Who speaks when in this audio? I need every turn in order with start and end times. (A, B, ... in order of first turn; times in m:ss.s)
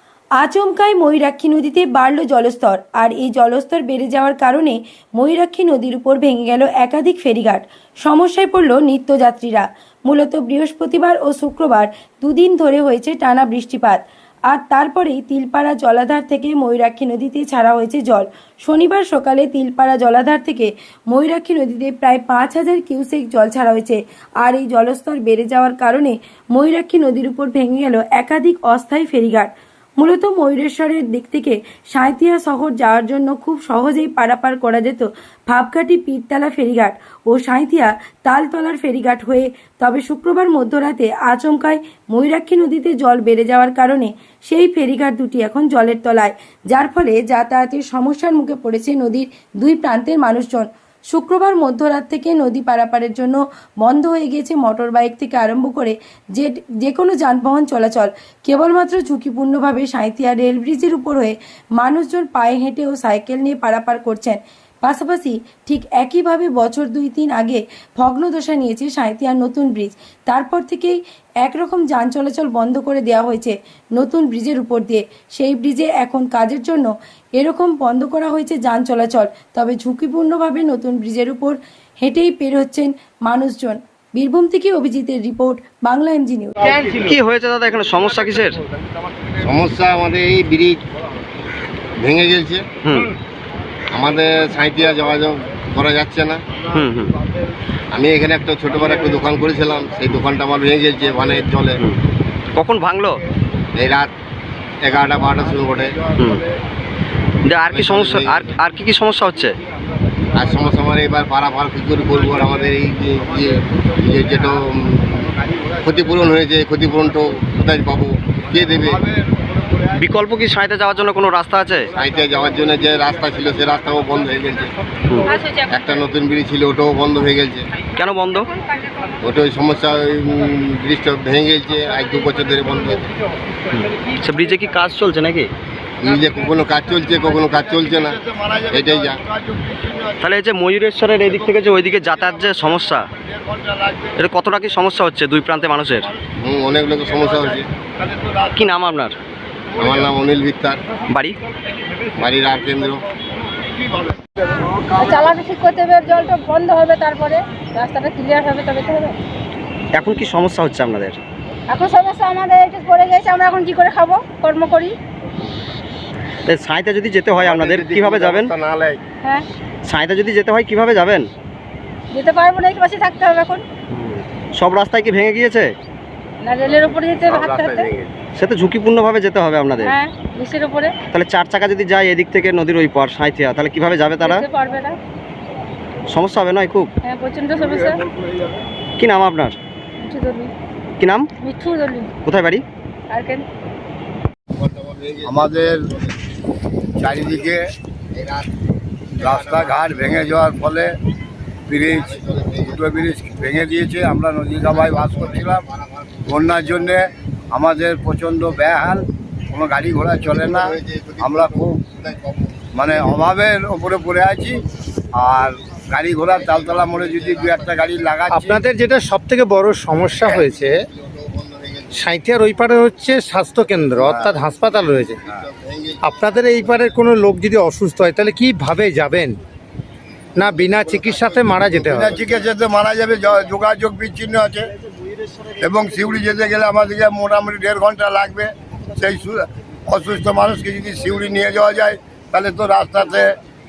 0:00.4-1:26.8 A
1:26.7-1:28.6 B
1:29.4-1:30.8 C
1:32.0-1:32.8 C
1:32.8-1:33.1 B
1:33.9-1:36.4 C
1:36.7-1:37.2 B
1:37.9-1:41.8 C
1:42.5-1:43.2 B
1:43.7-1:44.1 C
1:44.8-1:46.0 C
1:44.9-1:46.5 D
1:46.2-1:46.4 B
1:47.4-1:49.6 B
1:47.7-1:48.6 C
1:49.6-1:50.8 D
1:50.3-1:55.3 C
1:52.1-1:56.4 D
1:55.8-1:59.0 C
1:58.5-2:00.1 D
1:59.9-2:01.9 B
2:01.9-2:03.8 D
2:01.9-2:04.7 C
2:05.1-2:05.4 B
2:05.2-2:05.9 E
2:05.6-2:07.7 C
2:07.9-2:08.5 B
2:09.2-2:13.1 C
2:13.7-2:15.5 B
2:16.0-2:19.2 C
2:17.0-2:20.4 D
2:20.2-2:23.1 B
2:21.2-2:24.1 D
2:24.2-2:26.1 B
2:25.9-2:28.6 D
2:26.4-2:27.7 C
2:28.5-2:29.2 B
2:29.8-2:30.1 D
2:29.8-2:30.8 C
2:31.1-2:31.4 B
2:32.2-2:33.0 C
2:33.5-2:34.3 D
2:34.9-2:39.2 E
2:39.9-2:41.2 B
2:41.7-2:44.9 E
2:46.4-2:48.5 B
2:47.4-2:49.0 C
2:49.8-2:51.3 B
2:52.1-2:53.6 E
2:53.9-2:55.7 B
2:56.4-2:57.9 E
2:57.6-2:57.8 C
2:58.3-2:59.9 B
2:59.8-3:01.0 E
3:01.1-3:04.4 B
3:04.2-3:05.0 E
3:06.1-3:06.9 B
3:07.0-3:08.0 E
3:07.7-3:08.6 D
3:09.0-3:09.6 B
3:10.0-3:10.5 E
3:11.0-3:11.3 B
3:11.4-3:12.1 E
3:12.2-3:12.6 B
3:13.1-3:13.4 E
3:14.6-3:16.2 C
3:15.2-3:15.8 D
3:17.0-3:17.6 D
3:17.0-3:17.5 C
3:18.1-3:18.5 C
3:19.1-3:20.4 C
3:19.2-3:20.9 D
3:21.7-3:25.6 D
3:21.9-3:23.6 C
3:24.6-3:27.0 C
3:26.2-3:31.8 D
3:30.0-3:33.2 C
3:32.7-3:34.6 D
3:35.1-3:38.6 D
3:36.2-3:38.5 C
3:38.3-3:40.8 F
3:40.2-3:42.0 C
3:41.9-3:45.2 F
3:44.0-3:44.4 D
3:44.3-3:47.1 C
3:46.0-3:49.4 F
3:50.4-3:52.2 F
3:50.4-3:52.5 C
3:51.8-3:54.7 D
3:53.2-3:53.5 C
3:55.6-4:03.4 D
4:00.9-4:01.9 C